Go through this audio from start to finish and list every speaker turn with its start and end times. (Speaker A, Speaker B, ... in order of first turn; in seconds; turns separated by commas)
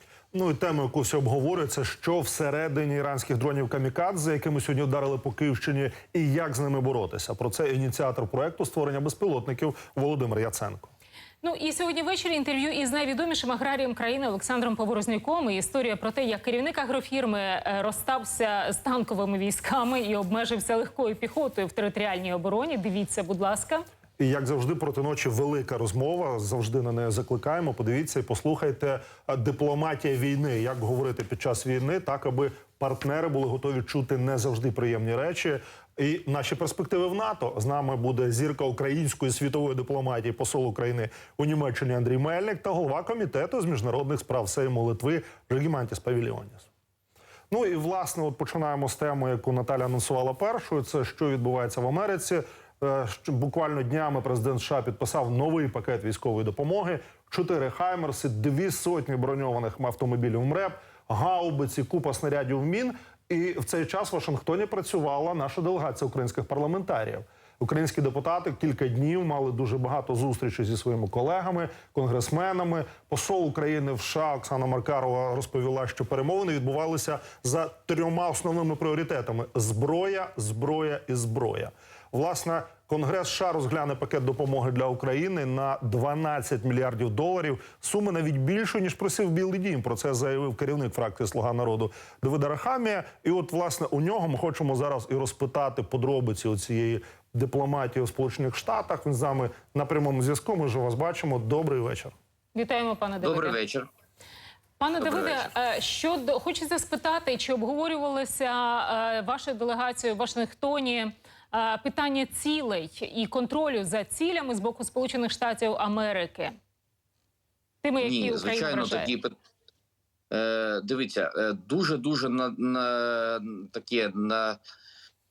Speaker A: 0.3-10.9, Speaker B: 11.4-23.8, Speaker A: 24.2-46.7, Speaker A: 47.5-102.1, Speaker B: 102.5-103.6, Speaker C: 103.2-103.9, Speaker B: 104.8-116.5, Speaker C: 105.0-105.5, Speaker B: 117.8-119.1, Speaker C: 118.0-119.3, Speaker C: 120.3-124.6